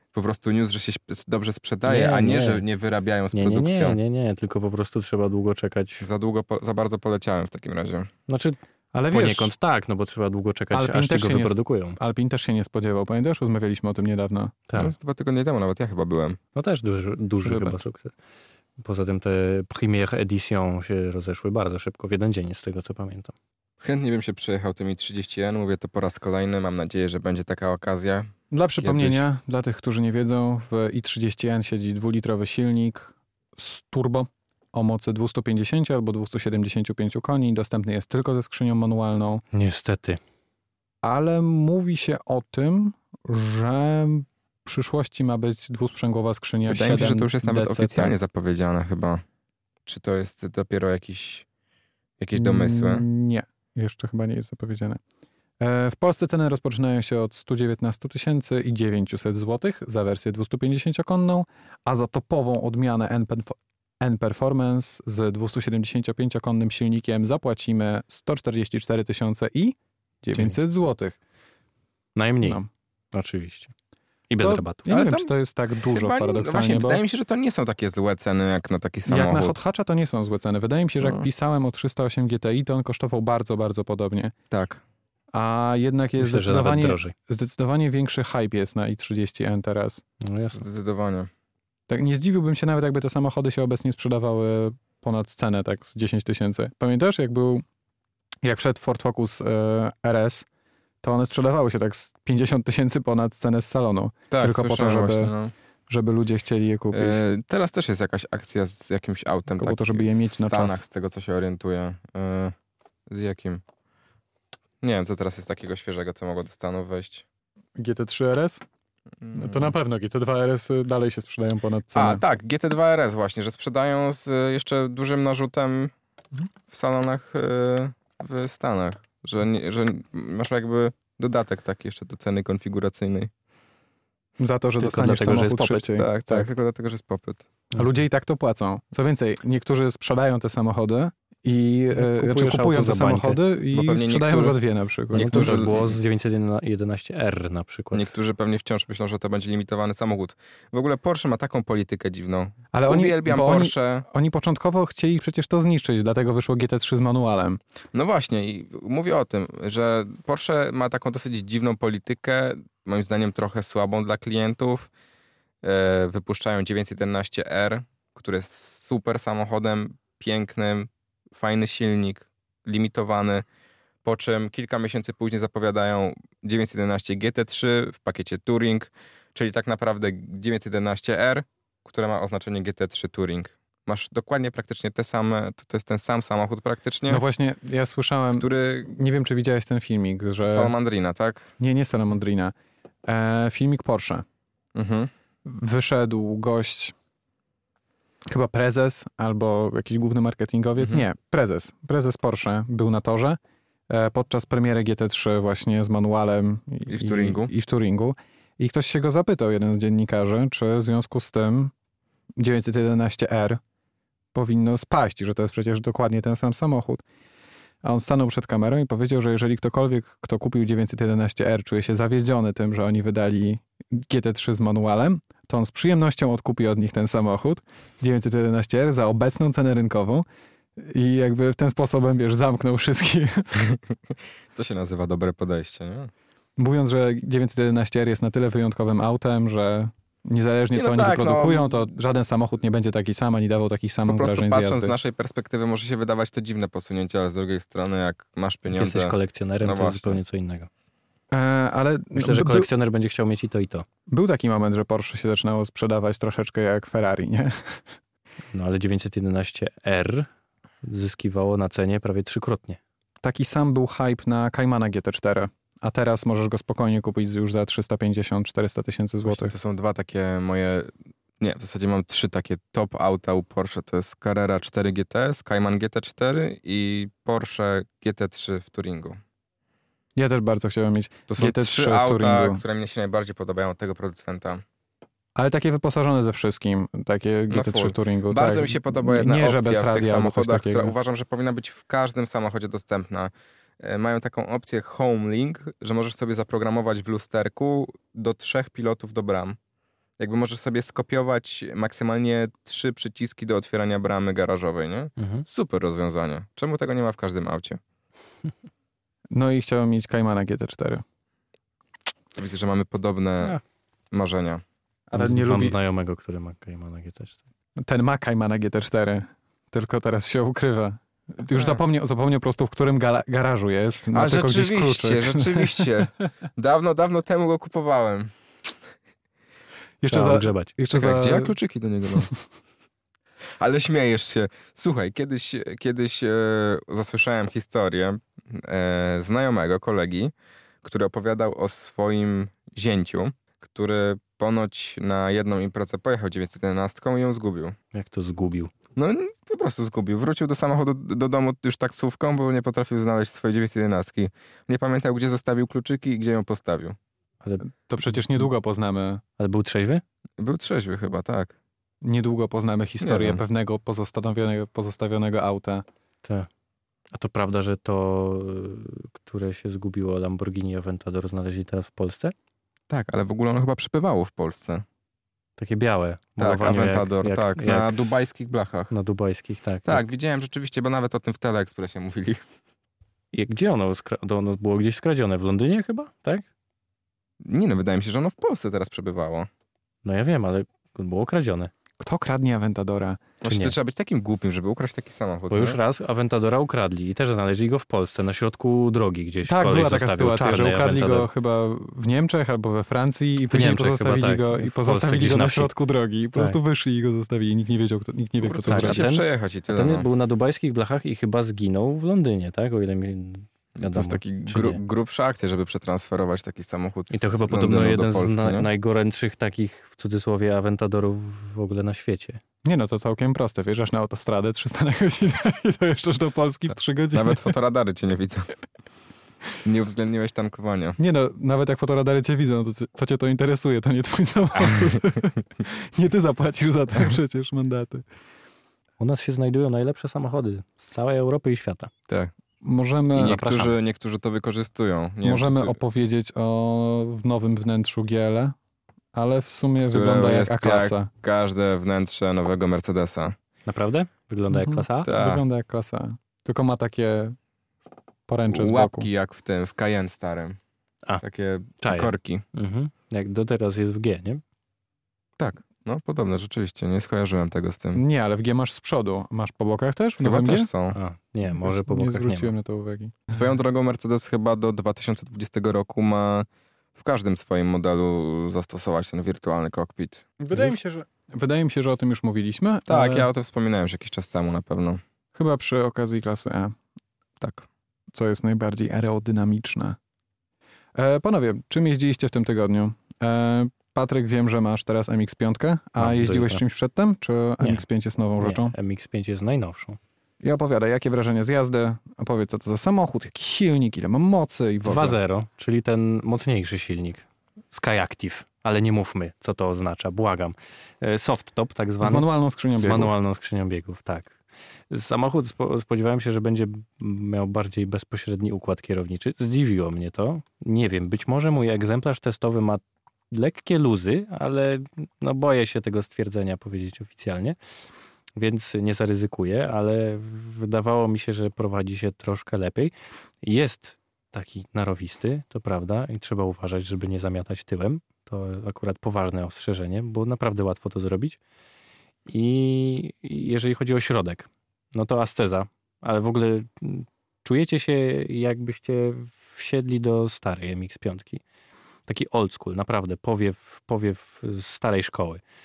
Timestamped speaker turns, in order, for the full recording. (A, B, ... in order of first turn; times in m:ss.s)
0:00.1-0:04.0 A
0:01.9-0:02.6 B
0:03.3-0:06.0 B
0:06.0-0:08.1 A
0:08.3-0:08.6 B
0:08.9-0:09.5 C
0:09.1-0:12.0 B
0:10.7-0:14.6 C
0:14.8-0:16.4 A
0:16.6-0:18.1 B
0:17.4-0:17.8 C
0:18.8-0:23.3 B
0:23.8-0:29.2 A
0:28.5-0:39.4 C
0:39.5-0:40.2 B
0:41.0-0:48.2 C
0:46.7-0:49.2 A
0:49.9-0:51.5 A
0:52.2-0:53.0 A
0:52.4-0:55.0 C
0:55.6-1:11.2 C
1:12.2-1:12.6 B
1:13.1-1:13.7 B
1:14.3-1:14.9 B
1:14.4-1:17.0 C
1:14.9-1:15.3 A
1:15.9-1:19.6 A
1:19.1-1:24.3 C
1:24.5-1:24.8 A
1:25.3-1:30.0 C
1:26.2-1:27.1 B
1:30.2-1:30.6 B
1:30.5-1:31.3 A
1:31.9-1:37.6 C
1:38.4-1:40.5 C
1:41.0-1:45.3 C
1:44.3-1:45.5 A
1:45.9-1:47.2 C
1:46.9-1:52.5 A
1:49.6-1:50.8 C
1:53.1-1:53.6 A
1:54.8-1:57.2 A
1:57.8-1:58.6 C
1:59.2-1:59.8 A
1:59.3-2:02.2 C
2:02.0-2:05.9 A
2:06.7-2:13.3 A
2:14.4-2:16.5 C
2:14.8-2:15.9 B
2:16.0-2:17.5 A
2:17.7-2:25.7 C
2:21.9-2:23.4 B
2:23.7-2:24.6 A
2:25.1-2:26.0 A
2:25.2-2:28.1 B
2:27.9-2:34.1 A
2:32.7-2:37.6 C
2:37.9-2:44.9 A
2:45.6-2:53.4 A
2:54.0-3:07.2 A
3:07.1-3:10.7 C
3:08.4-3:08.9 A
3:10.4-3:11.5 A
3:11.6-3:12.5 C
3:13.1-3:14.2 C
3:14.8-3:15.1 A
3:15.5-3:17.0 C
3:18.3-3:31.7 C
3:26.9-3:27.5 A
3:32.4-3:33.6 C
3:34.3-3:37.0 C
3:37.8-3:50.2 C
3:50.8-3:53.7 C
3:53.6-3:56.1 A
3:56.6-4:04.9 C
4:00.7-4:01.9 A
4:04.1-4:10.2 A
4:08.7-4:10.7 B
4:11.3-4:12.7 C
4:12.2-4:13.8 B
4:14.1-4:17.8 C
4:18.5-4:20.3 B
4:20.8-4:22.8 B
4:23.2-4:29.5 C
4:29.2-4:39.2 A
4:40.2-4:42.6 C
4:41.3-4:44.6 A
4:45.4-4:50.9 C
4:47.5-4:59.6 A
5:00.2-5:07.8 A
5:05.2-5:05.4 B
5:09.3-5:11.0 C
5:12.4-5:13.6 A
5:14.1-5:14.6 A
5:15.1-5:15.8 C
5:15.2-5:17.4 B
5:17.8-5:26.1 C
5:21.6-5:21.8 A
5:24.1-5:28.3 A
5:30.0-5:31.6 C
5:30.1-5:30.7 B
5:30.9-5:32.3 A
5:33.6-5:40.3 A
5:40.8-5:47.8 A
5:47.9-5:48.7 B
5:49.0-5:57.0 A
5:57.4-5:58.4 B
5:57.6-5:59.2 C
5:59.4-6:00.0 B
6:00.4-6:01.6 A
6:02.0-6:05.8 C
6:03.0-6:03.4 A
6:07.1-6:12.3 B
6:12.9-6:14.8 A
6:15.6-6:18.3 B
6:16.4-6:18.9 A
6:18.9-6:20.0 B
6:19.9-6:22.4 A
6:23.3-6:26.4 B
6:27.4-6:29.5 A
6:30.0-6:31.7 B
6:32.0-6:33.2 C
6:33.4-6:35.8 A
6:33.4-6:33.8 B
6:35.5-6:41.3 B
6:39.5-6:49.1 C
6:43.5-6:45.7 B
6:48.4-6:50.1 A
6:48.7-6:54.8 B
6:53.8-6:58.7 A
6:57.1-7:02.4 B
7:02.7-7:07.6 C
7:07.1-7:08.6 A
7:09.6-7:11.0 A
7:11.0-7:18.0 C
7:14.6-7:15.1 A
7:19.0-7:21.9 B
7:22.6-7:23.4 C
7:23.2-7:25.8 A
7:23.2-7:23.8 B
7:25.2-7:28.6 C
7:29.1-7:31.1 C
7:29.9-7:33.4 A
7:33.7-7:35.1 B
7:34.5-7:37.4 C
7:35.0-7:35.4 A
7:38.3-7:39.1 C
7:38.5-7:40.6 A
7:41.2-7:42.4 A
7:41.8-7:44.4 B
7:45.4-7:48.0 A
7:47.9-7:50.7 C
7:50.2-7:51.0 A
7:50.9-7:52.5 B
7:51.5-7:53.3 C
7:53.3-8:00.3 A
8:00.4-8:03.3 C
8:02.9-8:05.0 A
8:05.4-8:06.8 C
8:07.4-8:07.7 A
8:08.1-8:10.0 C
8:11.0-8:18.7 C
8:16.0-8:16.6 B
8:18.4-8:20.0 B
8:20.4-8:25.2 C
8:24.8-8:34.3 B
8:32.0-8:33.1 C
8:34.9-8:47.6 B
8:48.4-9:01.4 B
9:02.3-9:11.4 B
9:12.1-9:15.4 B